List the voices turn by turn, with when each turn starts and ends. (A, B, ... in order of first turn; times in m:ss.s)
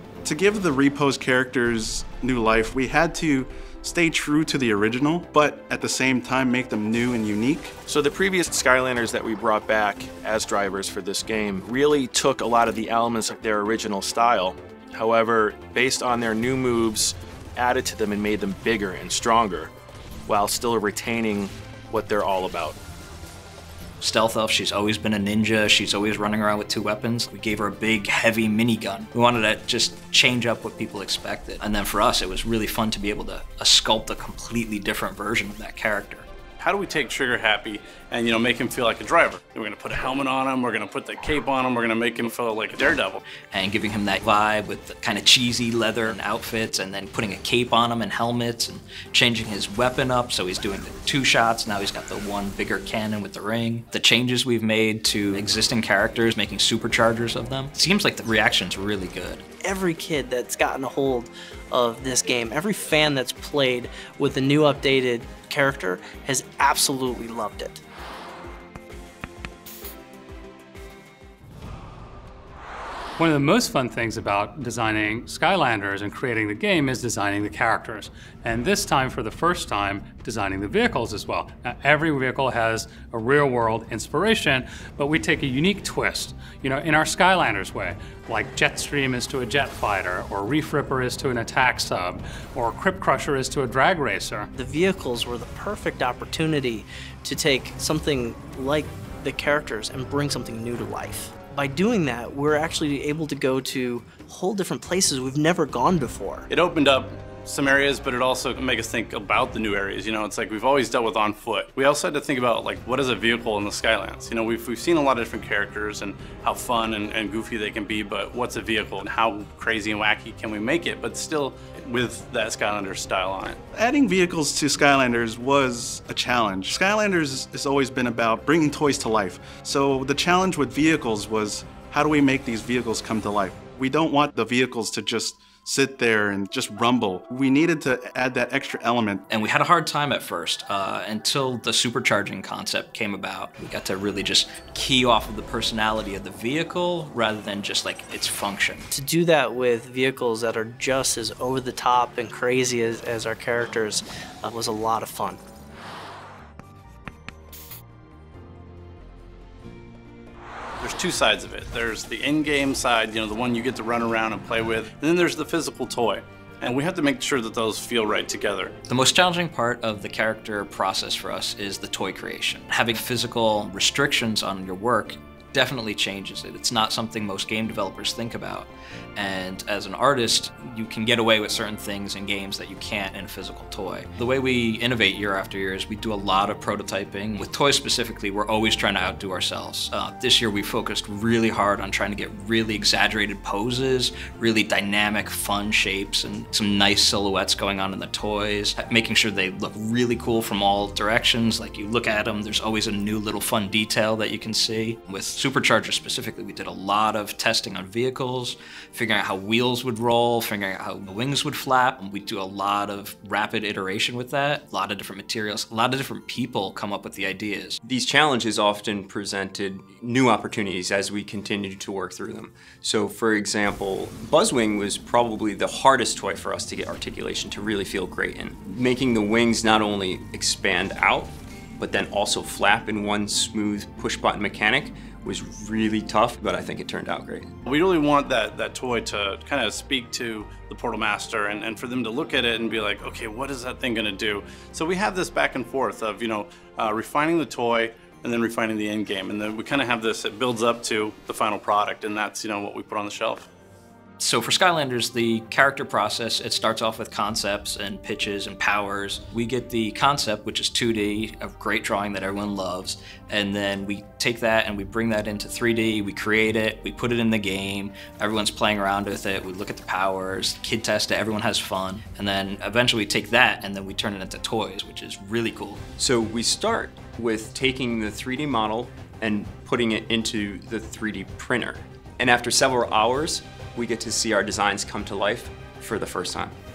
0:00.2-0:07.8 A
0:07.9-0:19.7 B
0:20.3-0:22.8 B
0:24.0-0:36.3 C
0:36.6-0:43.2 D
0:43.5-0:59.4 C
0:59.6-1:07.8 E
1:13.2-1:34.5 F
1:34.6-1:46.5 E
1:46.5-2:03.6 D
2:03.8-2:19.3 A
2:19.3-2:28.9 C
2:28.9-2:35.4 E
2:40.8-2:48.7 D
2:48.9-3:37.8 C
3:37.8-3:57.5 G
3:57.6-4:13.5 D
4:14.2-4:35.8 C
4:36.0-4:46.6 G